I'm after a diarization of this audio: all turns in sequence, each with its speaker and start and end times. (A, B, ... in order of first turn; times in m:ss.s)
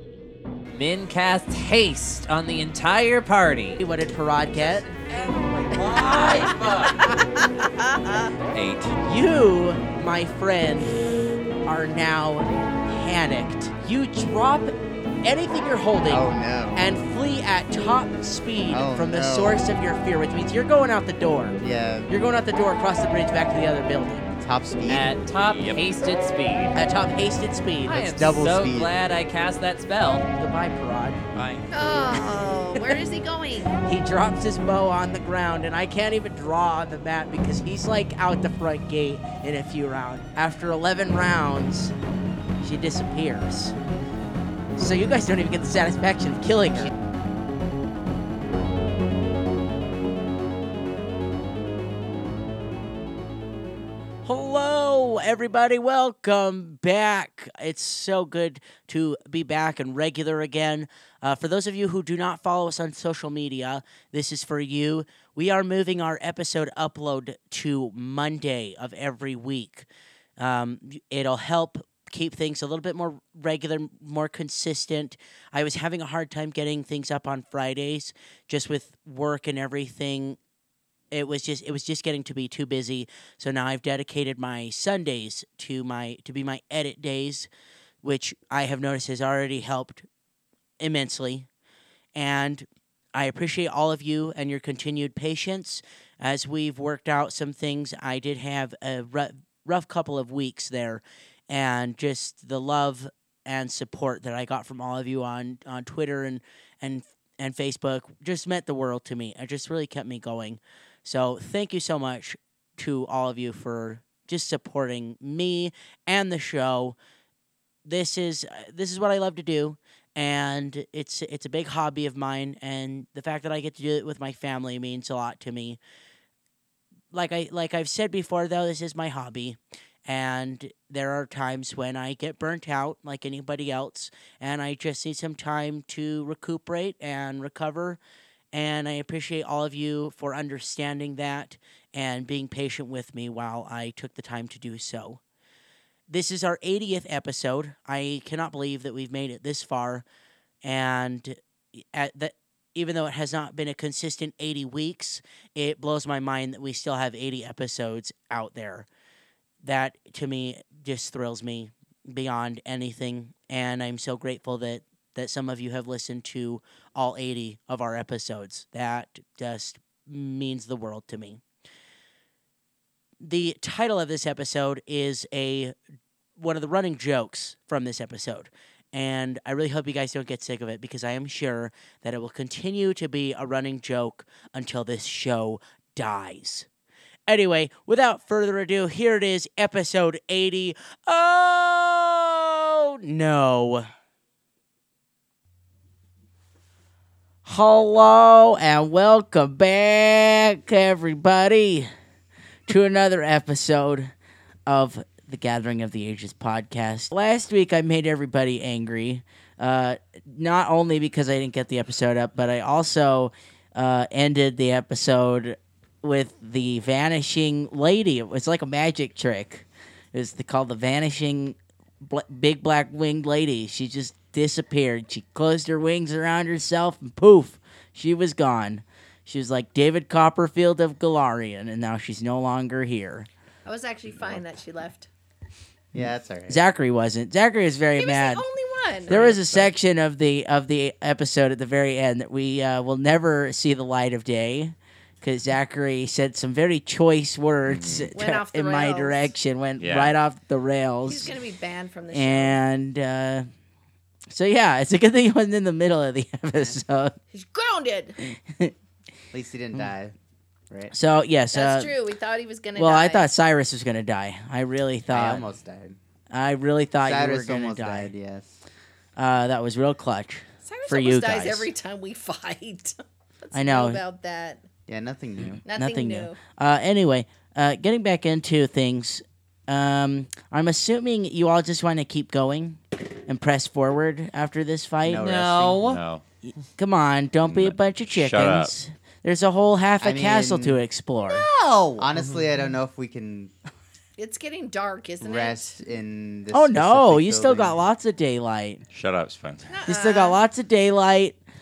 0:00.7-0:03.8 A
0:03.8-0:04.8 B
0:04.6-0:07.0 C
0:06.0-0:06.5 B
0:06.1-0:08.3 D
0:08.5-0:09.0 C
0:09.0-0:11.0 B
0:11.6-0:21.6 B
0:16.1-0:16.8 E
0:18.7-0:19.6 E
0:21.6-0:22.1 E
0:22.1-0:24.3 B
0:24.4-0:25.1 E
0:24.9-0:26.7 A
0:25.5-0:25.8 C
0:26.7-0:28.1 B
0:27.9-0:30.2 A
0:28.0-0:28.9 E
0:30.4-0:31.3 B
0:31.4-0:31.6 C
0:31.7-0:33.7 D
0:32.4-0:32.9 B
0:33.8-0:41.9 B
0:42.6-0:43.7 B
0:44.8-0:46.9 B
0:54.2-1:09.9 B
1:10.4-1:20.4 B
1:21.1-1:27.5 B
1:28.0-1:30.0 B
1:30.8-1:31.5 B
1:32.1-1:57.0 B
1:57.8-2:05.8 B
2:07.1-2:18.0 B
2:18.5-2:25.2 B
2:26.1-2:30.0 B
2:30.6-2:38.9 B
2:39.6-2:51.4 B
2:53.2-2:55.7 B
2:56.4-3:06.7 B
3:07.3-3:13.9 B
3:17.4-3:21.9 B
3:22.7-3:24.1 B
3:24.7-3:53.3 B
3:53.6-3:55.1 D
3:55.9-3:56.6 E
3:56.5-3:58.4 B
3:58.0-3:59.2 D
3:59.1-4:11.3 B
3:59.1-3:59.7 E
4:07.6-4:08.1 C
4:08.1-4:09.3 D
4:09.8-4:10.1 C
4:11.0-4:12.6 D
4:12.1-4:13.5 B
4:14.3-4:17.1 B
4:17.3-4:18.2 D
4:18.2-4:18.7 B
4:19.3-4:20.1 E
4:20.9-4:21.9 B
4:21.5-4:23.3 D
4:22.8-4:25.4 B
4:25.1-4:26.0 E
4:26.3-4:28.1 B
4:27.0-4:28.5 E
4:29.2-4:31.7 B
4:30.6-4:34.6 D
4:33.5-4:34.0 B
4:34.9-4:35.6 E
4:35.4-4:45.2 B
4:35.6-4:36.4 D
4:45.0-4:45.8 E
4:45.2-4:46.0 A
4:45.8-4:46.2 C
4:46.4-4:51.5 B
4:47.4-4:48.7 C
4:50.0-4:50.8 E
4:51.2-4:52.2 A
4:52.0-4:53.5 E
4:54.2-4:55.7 D
4:55.2-4:57.8 E
4:56.5-4:58.8 B
4:58.9-4:59.6 C
4:59.7-5:00.4 D
4:59.9-5:01.4 B